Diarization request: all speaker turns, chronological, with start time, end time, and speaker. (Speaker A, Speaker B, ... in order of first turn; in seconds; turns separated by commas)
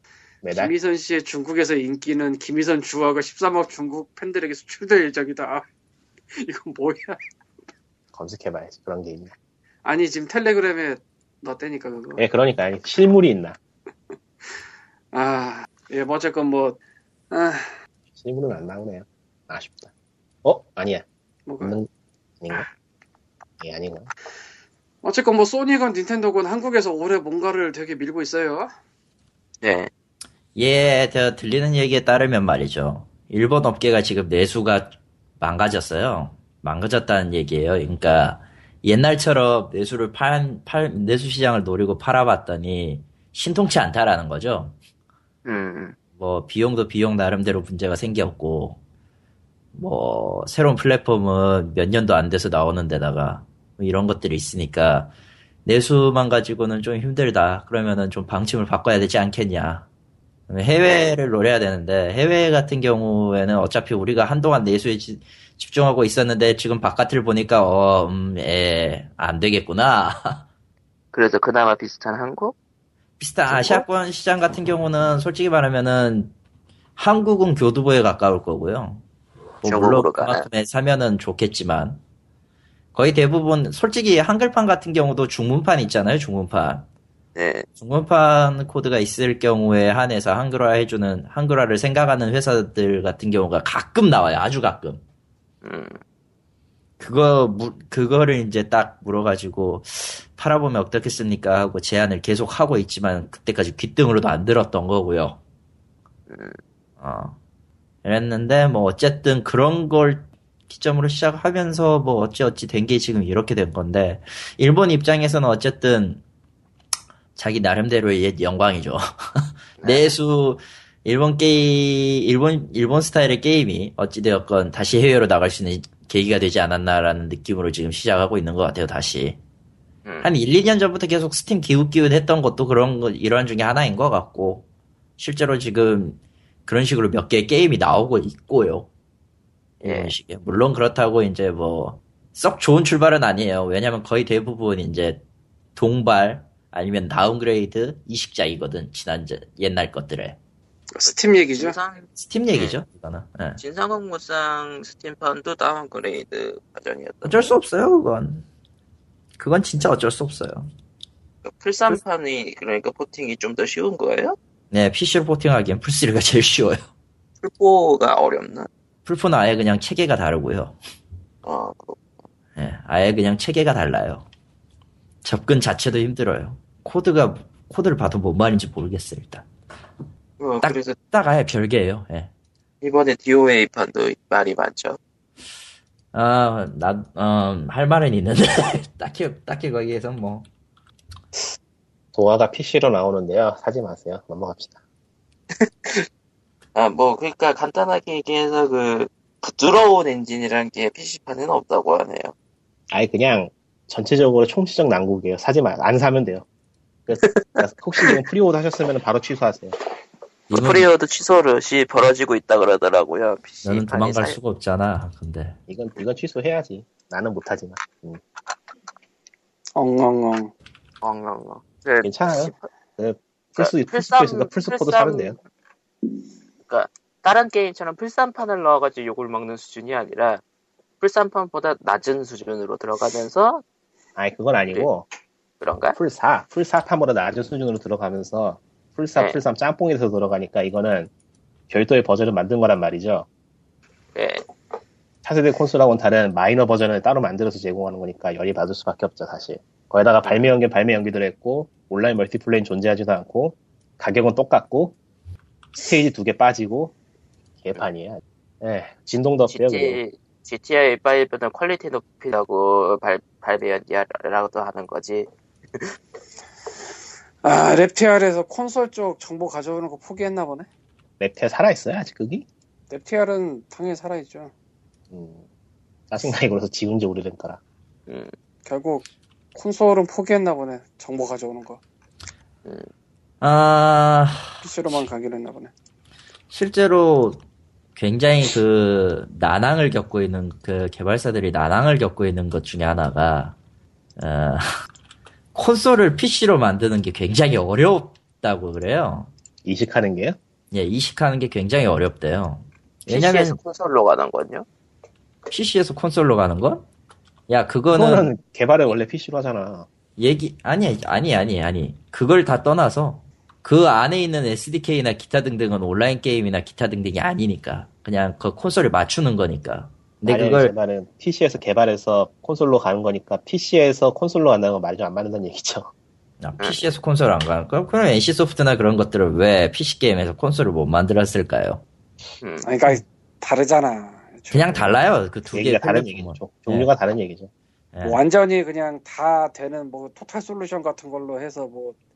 Speaker A: 0.4-0.7, Speaker B: 0.5-5.7, Speaker B: 6.3-7.2, Speaker A: 8.1-9.3, Speaker B: 9.8-12.2, Speaker A: 12.2-13.6, Speaker B: 15.1-16.8, Speaker B: 17.3-17.7, Speaker A: 18.2-19.9, Speaker A: 20.4-21.0, Speaker B: 21.5-21.8, Speaker A: 21.6-21.9, Speaker A: 23.6-24.1, Speaker B: 25.0-28.7, Speaker C: 29.6-29.9, Speaker D: 30.5-44.8, Speaker C: 45.5-45.9, Speaker D: 46.2-48.8, Speaker D: 49.7-55.1, Speaker D: 55.6-59.9, Speaker D: 60.5-70.4, Speaker C: 60.8-61.1, Speaker C: 71.1-72.5, Speaker D: 73.2-76.3, Speaker C: 73.5-73.8, Speaker D: 77.0-79.0, Speaker D: 79.6-82.0, Speaker C: 79.6-80.4, Speaker D: 82.9-86.9, Speaker C: 87.3-87.7, Speaker D: 87.8-95.0, Speaker C: 95.6-96.0, Speaker D: 97.0-105.4, Speaker C: 106.3-106.6, Speaker D: 107.0-107.4, Speaker D: 108.0-116.2, Speaker D: 117.3-129.4, Speaker C: 119.8-120.1, Speaker D: 130.2-134.7, Speaker D: 135.2-138.9, Speaker C: 139.8-140.1, Speaker D: 139.8-145.2, Speaker D: 145.8-150.4, Speaker B: 150.9-151.8, Speaker C: 151.1-152.8, Speaker D: 152.1-153.6, Speaker C: 153.6-157.6, Speaker D: 157.2-158.4, Speaker D: 159.4-160.7, Speaker C: 161.4-164.4, Speaker D: 164.7-166.8, Speaker C: 167.4-168.7, Speaker D: 169.0-170.8, Speaker C: 171.4-172.0, Speaker D: 172.6-174.2, Speaker D: 175.2-179.4, Speaker C: 180.4-180.9, Speaker D: 180.6-182.3, Speaker C: 182.8-185.0, Speaker D: 186.1-190.5, Speaker A: 192.1-194.8, Speaker C: 195.6-196.1, Speaker C: 196.7-202.3, Speaker A: 202.9-206.4, Speaker A: 207.1-209.7, Speaker C: 207.1-208.2, Speaker D: 210.5-210.9, Speaker C: 210.5-214.4, Speaker D: 213.6-215.6, Speaker A: 215.7-218.2, Speaker B: 219.7-220.5, Speaker C: 221.0-222.7, Speaker A: 222.0-225.4, Speaker C: 223.6-225.4, Speaker C: 226.7-230.4, Speaker C: 231.0-233.6, Speaker A: 234.2-235.1, Speaker C: 235.6-236.0, Speaker A: 235.9-241.1, Speaker A: 241.7-243.3, Speaker C: 244.1-244.4, Speaker A: 245.2-254.9, Speaker A: 255.7-256.9, Speaker A: 257.6-260.0, Speaker C: 259.5-265.9, Speaker B: 267.4-270.7, Speaker A: 271.2-272.4, Speaker B: 272.9-274.5, Speaker A: 275.1-275.4, Speaker A: 276.1-277.6, Speaker B: 278.6-281.8, Speaker D: 283.4-285.1, Speaker B: 284.6-285.7, Speaker D: 286.5-287.4, Speaker D: 287.9-293.6, Speaker D: 294.2-294.7, Speaker D: 295.5-299.3, Speaker A: 299.6-300.4, Speaker D: 300.7-303.6, Speaker C: 303.1-304.6, Speaker D: 305.5-306.8, Speaker D: 307.5-308.3, Speaker A: 307.9-309.9, Speaker D: 310.2-320.7, Speaker A: 320.2-325.9, Speaker D: 326.4-331.8, Speaker C: 332.4-332.7, Speaker B: 332.6-335.0, Speaker D: 334.5-336.9, Speaker A: 335.5-337.5, Speaker D: 337.9-338.2, Speaker B: 338.0-341.9